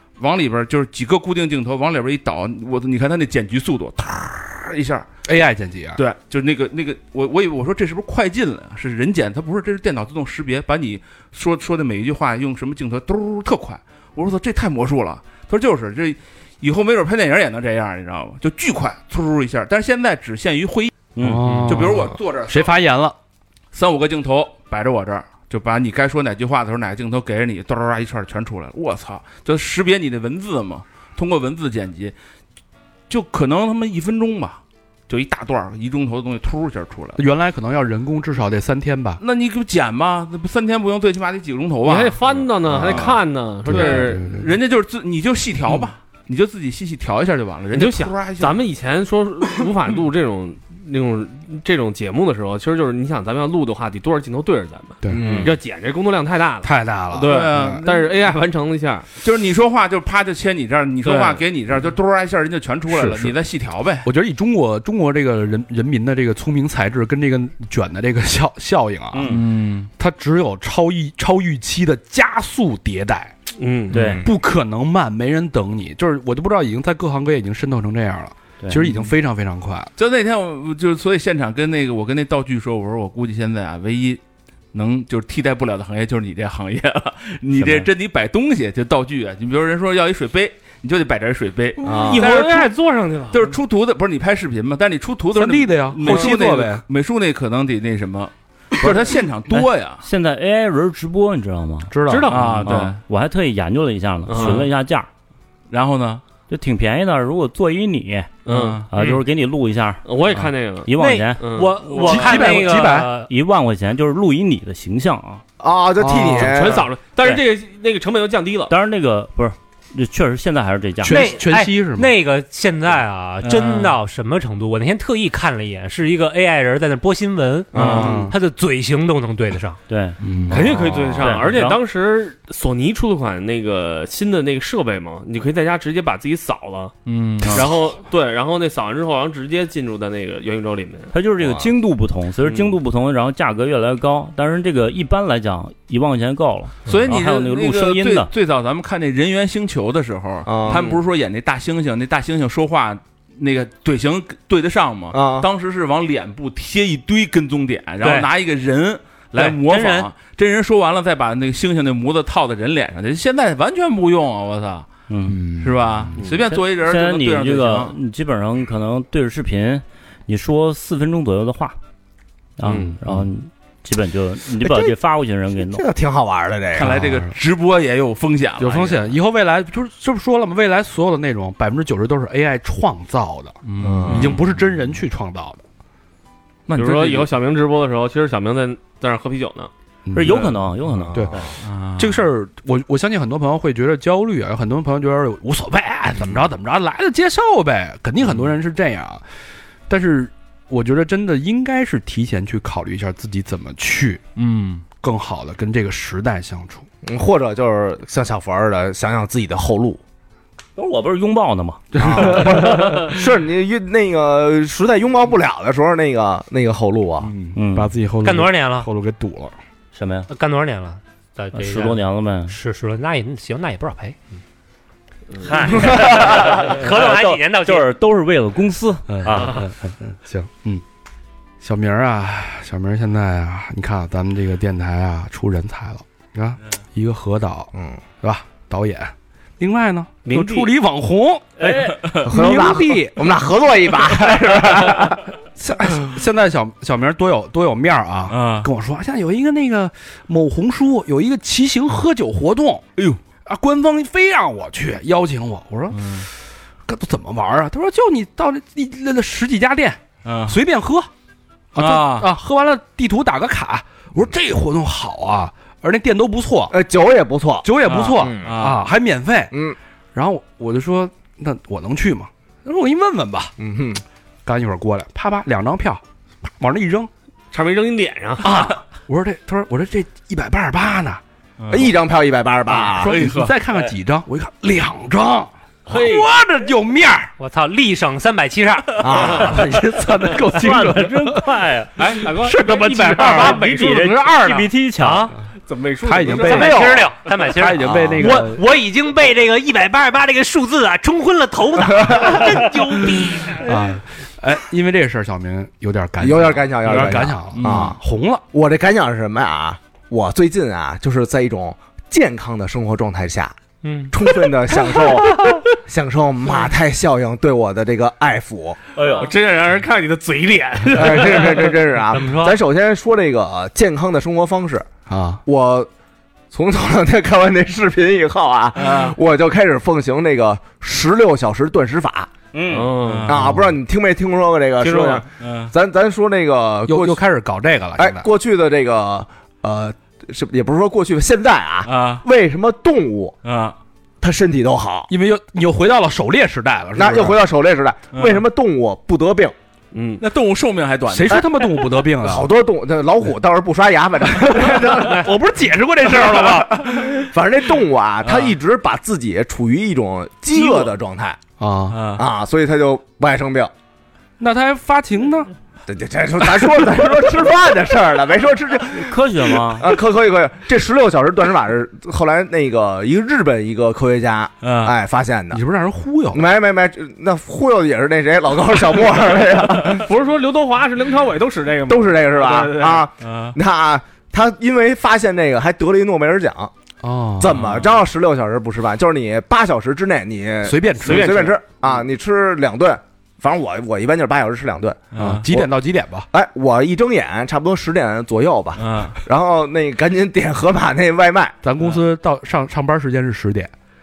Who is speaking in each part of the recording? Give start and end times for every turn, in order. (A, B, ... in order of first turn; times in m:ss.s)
0:00.2-0:05.1 A
0:05.2-0:06.0 B
0:06.0-0:20.9 A
0:21.1-0:21.8 C
0:21.2-0:23.2 B
0:21.4-0:22.7 A
0:23.7-0:32.1 A
0:33.1-0:37.2 A
0:37.2-0:39.2 B
0:39.2-0:48.6 A
0:41.8-0:44.3 D
0:43.6-0:44.5 B
0:47.7-0:59.1 D
0:55.0-0:55.5 B
0:55.1-0:55.5 E
0:56.6-0:57.8 B
0:57.2-0:58.0 A
0:59.2-1:04.1 A
1:01.0-1:01.4 D
1:02.9-1:03.4 B
1:04.0-1:13.3 B
1:09.1-1:09.4 C
1:09.3-1:09.9 A
1:13.6-1:14.2 D
1:13.9-1:14.3 C
1:13.9-1:19.9 B
1:18.8-1:19.1 A
1:20.0-1:24.2 A
1:24.7-1:32.7 A
1:27.6-1:27.8 C
1:31.8-1:32.3 E
1:31.8-1:33.6 D
1:33.3-1:40.0 A
1:35.3-1:36.8 B
1:36.0-1:36.3 D
1:39.5-1:41.9 C
1:41.9-1:42.5 B
1:42.0-1:42.9 D
1:42.3-1:43.0 A
1:42.6-1:45.1 C
1:44.3-1:44.7 D
1:44.3-1:44.7 A
1:45.7-1:46.2 A
1:46.5-1:51.4 C
1:48.4-1:48.9 D
1:48.5-1:48.9 A
1:50.0-1:52.0 D
1:50.9-1:53.3 F
1:51.9-1:53.1 B
1:53.2-1:55.4 C
1:55.6-1:56.9 E
1:56.0-1:56.8 B
1:56.3-1:58.7 D
1:58.7-2:01.3 C
2:01.0-2:02.1 B
2:01.0-2:09.8 F
2:03.4-2:04.0 A
2:07.7-2:08.2 A
2:07.7-2:08.4 B
2:09.9-2:11.8 C
2:10.2-2:10.7 B
2:10.5-2:17.0 D
2:17.0-2:17.7 A
2:17.5-2:21.1 D
2:21.1-2:28.3 C
2:22.4-2:22.7 D
2:26.8-2:44.9 A
2:30.4-2:31.0 E
2:35.1-2:35.5 E
2:38.0-2:38.3 F
2:39.3-2:40.1 F
2:45.1-2:45.4 C
2:45.3-2:46.2 B
2:45.6-2:47.9 A
2:46.2-2:46.4 D
2:46.5-2:51.8 C
2:52.6-2:55.8 C
2:52.7-2:52.9 D
2:54.6-2:54.9 E
2:55.6-2:56.9 E
2:56.7-2:59.1 A
2:56.8-2:57.3 B
2:58.6-3:05.6 B
3:03.7-3:04.5 A
3:03.8-3:04.4 E
3:06.7-3:07.3 A
3:06.7-3:09.7 D
3:10.1-3:10.5 B
3:10.1-3:11.5 C
3:10.9-3:11.5 E
3:11.1-3:19.2 B
3:11.6-3:12.2 A
3:19.9-3:24.3 B
3:24.4-3:24.8 A
3:24.9-3:26.8 B
3:27.0-3:30.0 E
3:30.8-3:31.8 C
3:31.9-3:33.1 B
3:32.0-3:37.3 E
3:37.2-3:39.6 B
3:37.5-3:37.9 C
3:38.2-3:38.9 F
3:39.9-3:40.3 C
3:40.3-3:44.2 F
3:41.5-3:42.6 C
3:45.4-3:45.7 D
3:45.4-3:49.6 C
3:45.7-3:47.9 F
3:49.1-3:50.8 B
3:51.6-3:57.7 B
3:57.7-3:58.0 E
3:58.2-4:03.2 B
4:00.2-4:00.7 D
4:01.6-4:02.0 C
4:01.9-4:02.2 A
4:02.2-4:05.2 E
4:05.6-4:12.9 B
4:08.3-4:08.7 A
4:13.4-4:16.2 B
4:15.8-4:16.3 A
4:16.8-4:21.1 B
4:20.2-4:20.6 A
4:21.7-4:26.8 B
4:21.8-4:22.3 A
4:26.7-4:28.5 E
4:27.6-4:29.5 B
4:27.8-4:28.9 A
4:29.5-4:29.8 E
4:30.1-4:33.5 B
4:33.6-4:34.0 E
4:34.4-4:37.1 B
4:37.5-4:38.6 D
4:38.4-4:41.2 B
4:41.6-4:41.9 A
4:41.7-4:43.1 E
4:42.8-4:47.3 B
4:42.9-4:43.6 A
4:45.9-4:46.3 D
4:47.4-4:49.3 F
4:49.0-4:49.6 E
4:49.3-4:51.5 B
4:50.5-4:51.9 C
4:52.0-4:54.7 D
4:52.2-4:53.6 B
4:53.2-4:54.0 F
4:53.3-4:55.3 C
4:55.0-4:55.3 F
4:55.6-4:56.9 D
4:56.0-4:56.9 B
4:56.3-5:03.6 F
4:56.6-4:57.1 E
4:57.5-4:58.6 B
5:02.1-5:02.4 E
5:03.6-5:08.4 B
5:06.2-5:08.0 E
5:07.5-5:07.8 A
5:08.5-5:13.5 E
5:13.8-5:14.2 F
5:14.1-5:18.8 E
5:14.7-5:15.6 F
5:19.0-5:21.7 D
5:20.9-5:24.9 E
5:22.1-5:22.6 F
5:25.1-5:25.4 B
5:25.4-5:25.9 E
5:26.5-5:32.3 E
5:28.7-5:29.2 A
5:32.5-5:32.9 C
5:32.7-5:33.3 D
5:33.0-5:33.6 A
5:33.2-5:37.2 E
5:33.3-5:33.7 B
5:34.8-5:35.2 D
5:35.3-5:35.7 A
5:36.9-5:38.2 B
5:38.0-5:43.4 E
5:41.8-5:42.2 A
5:43.4-5:43.8 A
5:44.2-5:45.1 E
5:45.1-5:47.4 B
5:46.9-5:49.5 E
5:48.1-5:48.4 A
5:49.9-5:50.2 D
5:50.2-5:51.9 A
5:51.1-5:52.5 B
5:52.2-5:55.3 E
5:54.6-5:57.0 B
5:56.1-6:01.4 E
5:58.2-5:58.5 A
6:00.5-6:00.9 A
6:01.6-6:02.0 B
6:01.9-6:02.2 A
6:02.2-6:03.7 E
6:04.4-6:05.5 B
6:05.9-6:15.6 E
6:08.9-6:09.9 C
6:14.6-6:14.9 A
6:15.5-6:16.4 B
6:16.3-6:20.0 E
6:20.0-6:23.1 D
6:21.9-6:26.7 E
6:23.2-6:23.6 A
6:27.0-6:27.6 B
6:27.4-6:35.7 E
6:27.6-6:27.9 A
6:30.6-6:31.5 B
6:31.0-6:31.6 D
6:35.1-6:35.4 A
6:35.2-6:36.2 B
6:36.3-6:41.6 E
6:38.8-6:39.2 A
6:41.6-6:43.7 B